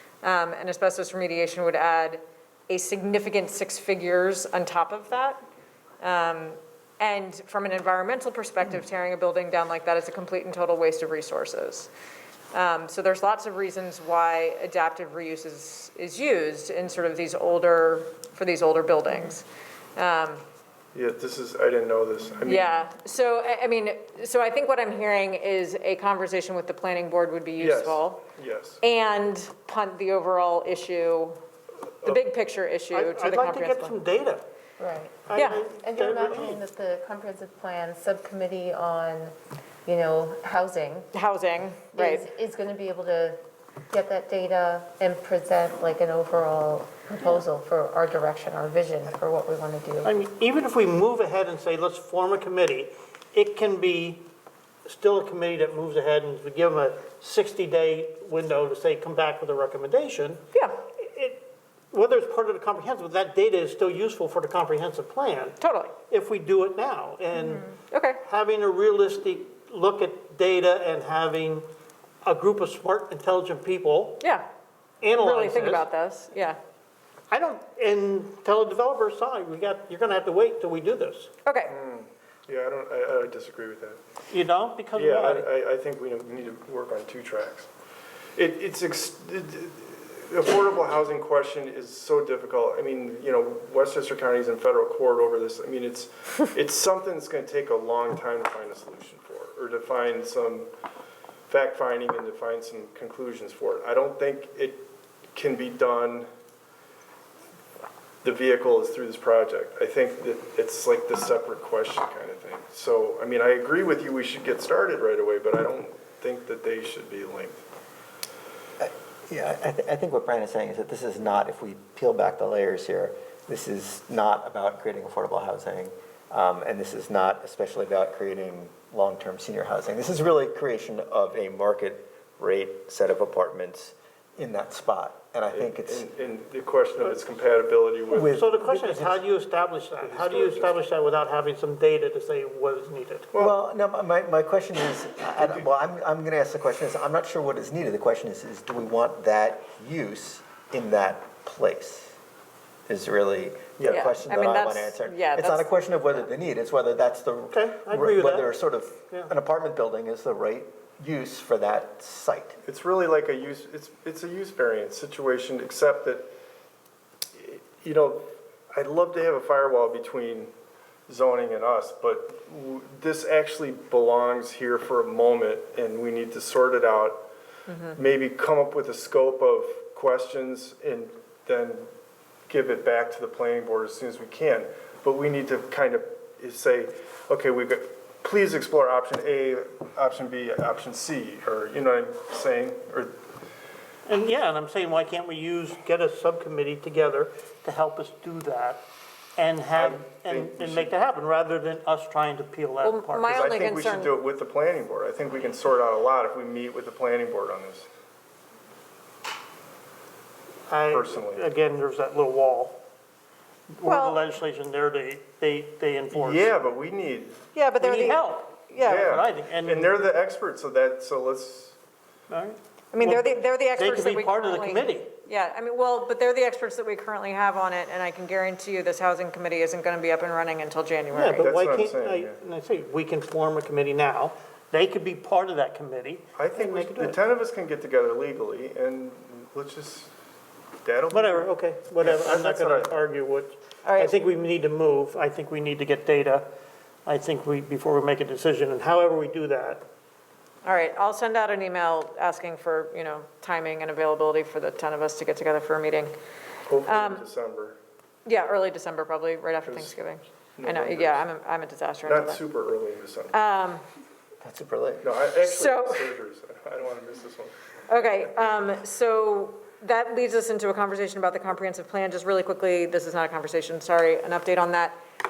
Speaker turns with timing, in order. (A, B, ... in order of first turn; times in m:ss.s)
0:00.2-0:05.4 A
0:06.0-0:11.9 A
0:12.5-0:20.4 A
0:20.9-0:22.7 B
0:22.5-0:28.2 A
0:27.6-0:28.8 B
0:28.8-0:31.4 A
0:32.0-0:34.0 A
0:32.9-0:34.4 C
0:34.8-0:41.1 D
0:35.3-0:36.5 C
0:35.4-0:35.6 A
0:41.1-0:42.3 A
0:41.9-0:43.4 D
0:43.9-0:50.1 D
0:50.0-0:54.3 C
0:54.9-1:00.4 C
1:01.0-1:05.6 C
1:05.6-1:05.9 A
1:06.1-1:07.6 C
1:07.4-1:08.2 A
1:08.2-1:11.7 C
1:12.2-1:14.2 C
1:14.2-1:14.5 A
1:15.0-1:15.9 C
1:15.2-1:16.6 A
1:17.3-1:21.3 C
1:21.4-1:21.7 A
1:21.7-1:24.0 B
1:24.3-1:25.4 C
1:24.9-1:27.7 B
1:28.4-1:40.7 B
1:41.5-1:46.3 B
1:48.2-1:57.6 B
1:58.8-2:16.0 E
2:15.5-2:18.4 B
2:18.1-2:19.2 E
2:18.3-2:23.3 C
2:20.0-2:20.8 B
2:23.4-2:32.1 E
2:32.9-2:42.6 E
2:33.9-2:35.8 A
2:37.5-2:38.5 C
2:42.6-2:46.3 B
2:47.4-2:50.5 B
2:51.1-2:57.3 B
2:57.7-2:58.0 A
2:58.0-3:01.9 B
3:02.5-3:13.2 B
3:14.1-3:18.8 C
3:19.4-3:23.3 C
3:19.7-3:20.9 B
3:22.8-3:24.1 A
3:23.3-3:27.9 B
3:30.7-3:32.8 C
3:30.9-3:31.4 B
3:33.7-3:36.5 C
3:33.8-3:34.2 A
3:36.1-3:37.4 B
3:37.5-3:39.0 A
3:37.8-3:40.0 C
3:38.8-3:41.8 B
3:42.3-3:45.1 C
3:42.9-3:51.5 A
3:51.1-3:57.2 C
3:51.3-3:52.4 B
3:56.4-4:00.1 B
4:00.8-4:03.0 B
4:01.1-4:06.5 C
4:03.8-4:04.2 A
4:07.1-4:09.8 C
4:10.6-4:16.2 A
4:16.7-4:17.8 B
4:16.8-4:17.2 A
4:18.3-4:22.4 A
4:19.6-4:20.0 B
4:20.6-4:21.2 B
4:22.1-4:23.4 B
4:23.3-4:23.8 A
4:24.4-4:25.0 E
4:25.0-4:27.5 B
4:25.4-4:26.1 A
4:27.9-4:35.0 A